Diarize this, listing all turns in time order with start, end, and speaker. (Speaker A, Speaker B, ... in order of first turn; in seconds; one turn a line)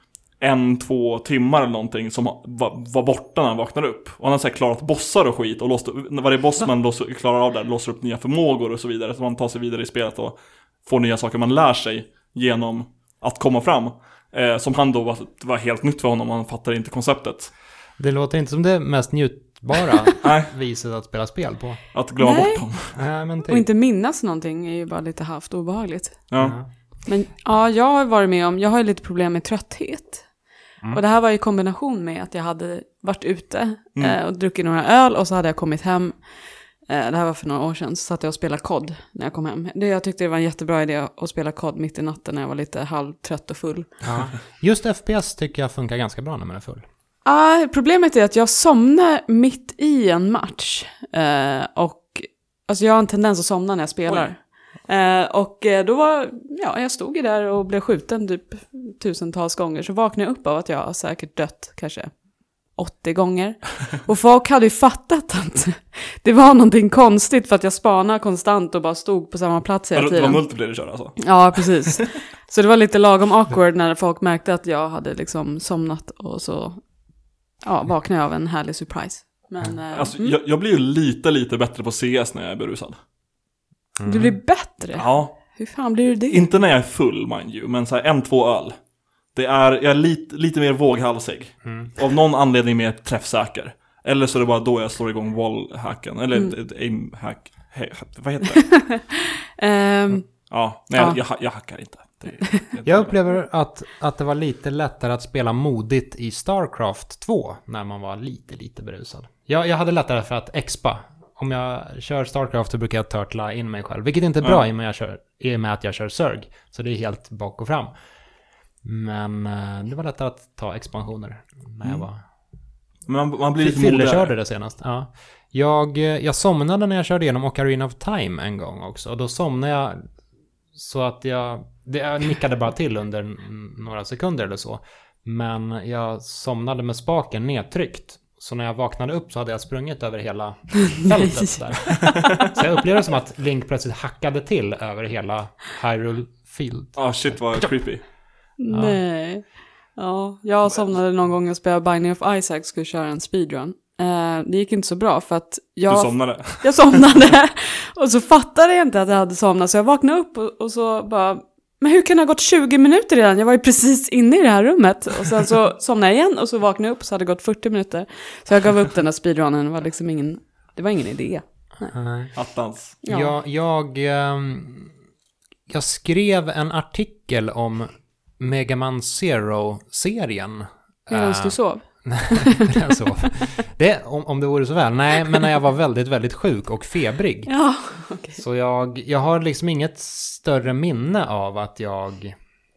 Speaker A: 0.4-17.5
Speaker B: 18.0-21.8
Speaker A: 20.2-20.5
Speaker A: 21.9-23.0
Speaker C: 22.2-22.6
Speaker B: 22.9-23.6
Speaker C: 23.5-26.3
Speaker A: 26.3-26.6
Speaker B: 26.4-26.7
Speaker C: 27.1-30.3
Speaker C: 30.9-36.2
Speaker C: 36.9-43.9
Speaker B: 44.0-46.9
Speaker C: 47.2-62.1
Speaker C: 62.7-70.4
Speaker A: 69.9-71.9
Speaker C: 71.2-76.8
Speaker C: 77.6-80.3
Speaker A: 79.9-83.0
Speaker B: 84.0-84.4
Speaker C: 84.1-86.5
Speaker A: 85.0-85.6
Speaker A: 86.3-88.8
Speaker A: 89.3-98.8
Speaker B: 91.7-91.9
Speaker C: 98.6-101.2
Speaker A: 100.5-103.2
Speaker B: 102.8-117.9
Speaker B: 118.8-122.2
Speaker A: 123.1-124.3
Speaker B: 123.6-130.1
Speaker B: 130.7-147.7
Speaker A: 147.0-148.0
Speaker C: 148.6-149.4
Speaker B: 148.7-149.0
Speaker C: 150.0-171.9
Speaker A: 155.9-156.9
Speaker B: 171.9-172.3
Speaker A: 172.3-173.0
Speaker C: 173.0-173.3
Speaker B: 173.1-174.9
Speaker B: 175.7-187.5
Speaker C: 181.1-182.8
Speaker C: 187.5-188.4
Speaker B: 188.4-192.3